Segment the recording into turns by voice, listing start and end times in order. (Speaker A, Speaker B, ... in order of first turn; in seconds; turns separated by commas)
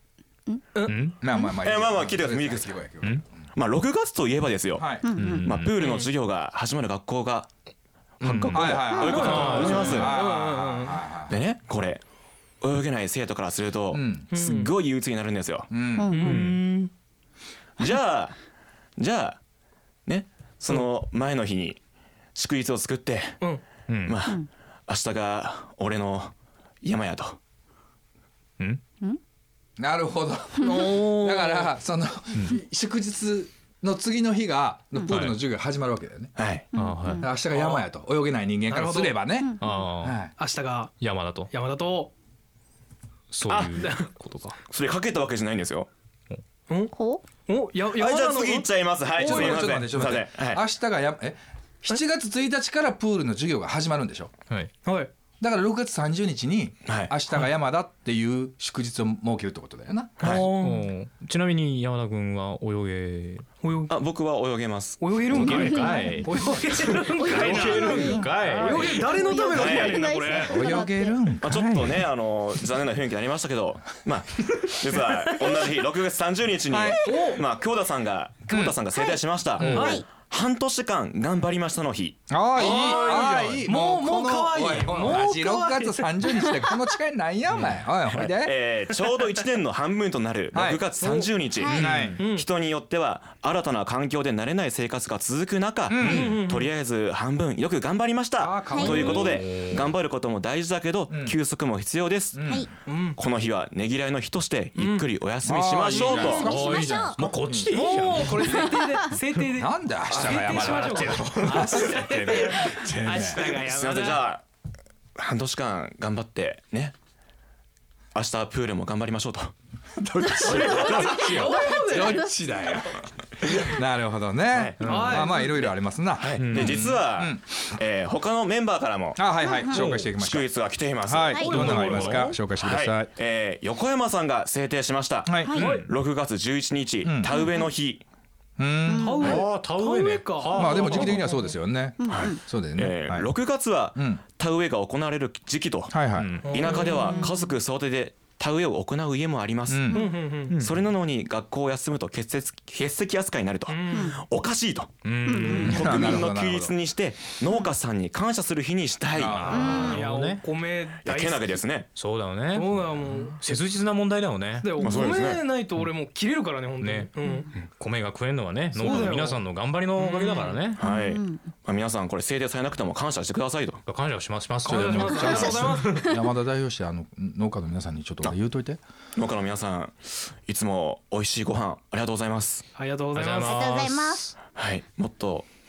Speaker A: 0.9-1.2, Speaker B: 1.2-3.2, Speaker C: 1.4-2.8, Speaker C: 3.5-7.5, Speaker B: 4.7-5.1, Speaker D: 5.0-5.5, Speaker A: 5.1-5.8, Speaker E: 5.8-6.1, Speaker C: 8.2-10.1, Speaker A: 8.2-10.1, Speaker B: 8.5-11.4, Speaker D: 8.9-9.2, Speaker E: 9.0-11.0, Speaker C: 11.3-12.0, Speaker C: 12.6-15.7, Speaker B: 13.9-14.3, Speaker E: 14.3-14.7, Speaker B: 15.7-16.1, Speaker D: 16.0-16.4, Speaker E: 16.1-16.9, Speaker A: 16.2-16.6, Speaker C: 17.8-18.4, Speaker C: 19.0-19.4, Speaker C: 20.1-21.8, Speaker C: 22.3-23.4, Speaker A: 23.9-24.2, Speaker C: 24.0-27.4, Speaker B: 29.8-36.3, Speaker E: 30.6-31.7, Speaker A: 35.0-35.4, Speaker C: 36.4-36.7, Speaker D: 36.7-37.3, Speaker A: 36.8-37.3, Speaker B: 37.2-40.3, Speaker E: 37.5-37.8, Speaker E: 38.7-39.3, Speaker D: 39.4-39.6, Speaker A: 39.6-40.3, Speaker E: 40.4-41.0, Speaker A: 41.0-41.5, Speaker E: 41.5-42.1, Speaker A: 43.3-44.5, Speaker C: 43.5-43.9, Speaker E: 43.8-44.1, Speaker C: 44.7-45.9, Speaker E: 46.7-46.9, Speaker D: 46.9-47.2, Speaker E: 47.5-49.7, Speaker C: 47.9-50.6, Speaker B: 49.1-54.3, Speaker E: 54.8-55.1, Speaker B: 55.4-60.2, Speaker C: 56.9-57.1, Speaker C: 60.2-60.5, Speaker E: 60.2-60.9, Speaker A: 60.4-63.5, Speaker E: 63.6-63.9, Speaker C: 63.9-65.6, Speaker E: 65.0-70.6, Speaker A: 65.3-66.4, Speaker D: 65.7-66.0, Speaker A: 67.0-69.0, Speaker D: 67.2-71.2, Speaker C: 67.3-68.0, Speaker C: 69.5-70.1, Speaker B: 70.4-72.1, Speaker C: 71.4-82.3, Speaker B: 76.7-77.0, Speaker E: 77.0-77.4, Speaker B: 78.5-78.8, Speaker D: 78.9-80.0, Speaker A: 79.6-79.9, Speaker E: 79.6-80.0, Speaker B: 79.6-79.9, Speaker B: 82.3-88.6, Speaker E: 82.5-86.3, Speaker C: 88.1-102.6, Speaker B: 90.5-90.9, Speaker E: 91.0-91.4, Speaker D: 91.5-91.8, Speaker A: 91.7-92.2, Speaker B: 91.7-92.2, Speaker E: 92.2-92.5, Speaker B: 95.9-96.3, Speaker E: 96.0-96.7, Speaker B: 98.4-99.4, Speaker D: 98.7-99.3, Speaker A: 99.2-99.9, Speaker B: 101.1-101.4, Speaker B: 102.3-102.7, Speaker E: 102.9-103.2, Speaker C: 103.2-106.5, Speaker E: 104.8-105.1, Speaker B: 105.4-107.8, Speaker D: 105.9-107.2, Speaker E: 106.0-106.4, Speaker A: 106.3-108.6, Speaker E: 107.7-114.3, Speaker B: 109.5-113.5, Speaker A: 110.1-111.7, Speaker C: 113.0-114.4, Speaker C: 115.2-116.9, Speaker C: 118.1-119.5, Speaker B: 120.0-127.8, Speaker C: 120.3-121.6, Speaker E: 120.4-122.3, Speaker C: 124.5-138.0, Speaker A: 124.8-125.2, Speaker E: 124.8-125.6, Speaker A: 126.4-127.0, Speaker B: 129.2-133.1, Speaker D: 129.4-129.9, Speaker D: 131.3-131.8, Speaker A: 131.4-132.3, Speaker E: 131.5-132.0, Speaker B: 135.2-135.6, Speaker D: 135.4-135.8, Speaker E: 135.6-135.9, Speaker B: 137.0-137.3, Speaker D: 137.3-137.7, Speaker B: 138.6-139.2, Speaker D: 138.8-139.4, Speaker E: 138.9-141.4, Speaker A: 139.2-141.1, Speaker B: 140.5-143.3, Speaker D: 142.0-142.4, Speaker C: 142.1-150.0, Speaker B: 143.9-144.2, Speaker B: 145.9-146.4, Speaker A: 146.2-146.6, Speaker E: 146.4-147.3, Speaker D: 146.7-147.5, Speaker B: 149.7-150.1, Speaker E: 149.9-150.6, Speaker A: 150.5-150.8, Speaker C: 150.6-159.7, Speaker E: 153.7-154.2, Speaker D: 153.9-154.2, Speaker A: 155.0-156.1, Speaker D: 155.2-155.8, Speaker B: 155.5-156.7, Speaker B: 159.1-159.8, Speaker A: 159.2-160.4, Speaker D: 159.5-160.0, Speaker E: 159.6-161.6, Speaker C: 161.0-161.9, Speaker A: 161.9-164.8, Speaker E: 162.5-163.4, Speaker E: 164.6-167.5, Speaker C: 164.8-165.4, Speaker A: 166.8-170.8, Speaker E: 168.7-170.7, Speaker C: 170.8-173.8, Speaker D: 170.8-171.4, Speaker A: 173.8-176.1, Speaker B: 174.6-178.8, Speaker E: 174.7-175.9, Speaker D: 175.0-176.2, Speaker C: 179.1-179.9, Speaker C: 180.4-182.6, Speaker E: 182.8-183.6, Speaker A: 183.1-184.3, Speaker D: 183.4-184.3, Speaker C: 184.5-185.5